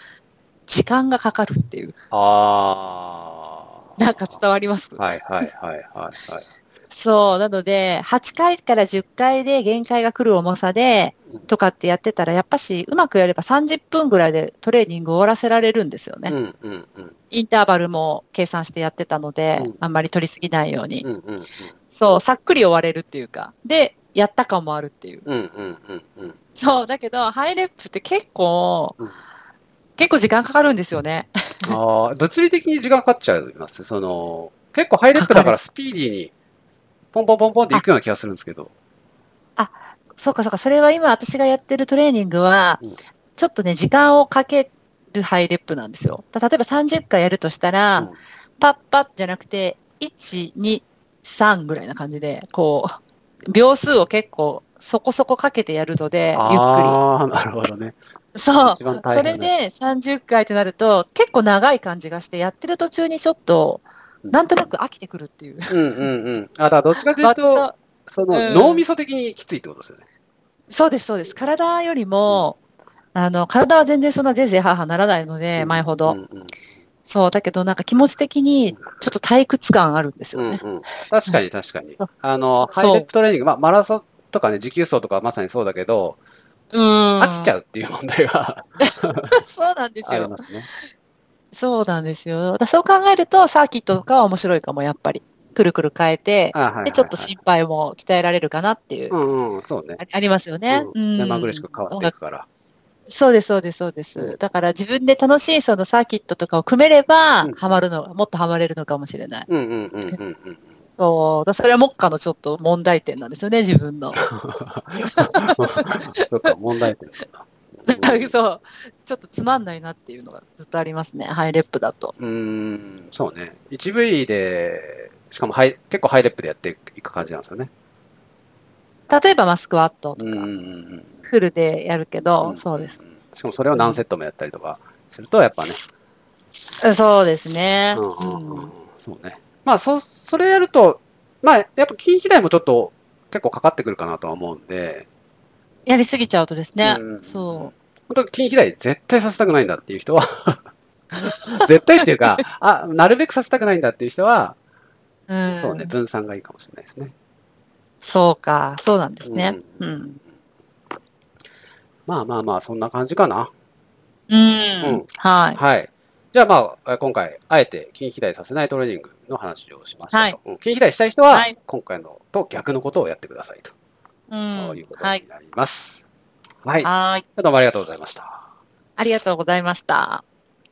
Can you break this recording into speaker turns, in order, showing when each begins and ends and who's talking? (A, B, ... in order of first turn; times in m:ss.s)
0:00.7-0:02.0 A
0:02.1-0:04.2 B
0:04.0-0:05.0 A
0:05.0-0:06.5 B
0:06.9-0:16.3 A
0:16.3-0:17.1 B
0:17.3-0:21.0 A
0:21.0-0:21.7 B
0:21.9-0:25.2 A
0:25.2-0:26.4 B
0:26.6-0:29.0 A
0:30.0-0:31.7 A
0:31.6-0:36.3 B
0:35.1-0:35.5 A
0:37.1-0:38.7 B
0:39.6-0:42.8 A
0:43.4-0:57.0 A
0:56.3-0:58.0 B
0:58.3-1:05.8 A
0:58.6-0:59.5 B
1:05.7-1:10.0 B
1:07.2-1:07.7 A
1:08.3-1:08.8 A
1:10.7-1:12.6 A
1:13.1-1:16.2 A
1:15.6-1:16.5 B
1:17.1-1:20.6 A
1:20.3-1:26.2 B
1:22.6-1:23.0 A
1:26.7-1:27.5 A
1:27.2-1:29.4 B
1:28.8-1:30.3 A
1:30.0-1:30.7 B
1:31.5-1:39.1 A
1:36.5-1:37.3 B
1:39.1-1:40.0 B
1:40.0-1:42.1 A
1:40.7-1:42.4 B
1:43.1-1:49.5 A
1:47.4-1:47.7 B
1:49.5-1:50.6 B
1:51.0-1:54.2 A
1:54.2-1:58.3 B
1:55.1-1:56.0 A
1:57.8-2:02.1 A
2:02.2-2:07.7 B
2:09.1-2:10.4 A
2:10.2-2:11.1 B
2:11.2-2:13.0 A
2:12.4-2:15.8 B
2:13.7-2:14.0 A
2:16.8-2:18.7 A
2:17.9-2:25.1 B
2:25.8-2:27.7 A
2:26.8-2:30.6 B
2:31.1-2:34.6 B
2:35.3-2:35.9 A
2:35.5-2:37.1 B
2:38.0-2:40.2 A
2:39.2-2:39.8 B
2:42.1-2:43.5 B
2:44.3-2:45.6 A
2:45.5-2:53.7 B
2:50.1-2:50.4 A
2:54.3-2:55.2 A
2:54.5-2:56.0 B
2:56.6-2:58.4 B
2:56.8-2:57.2 A
2:59.0-3:00.2 A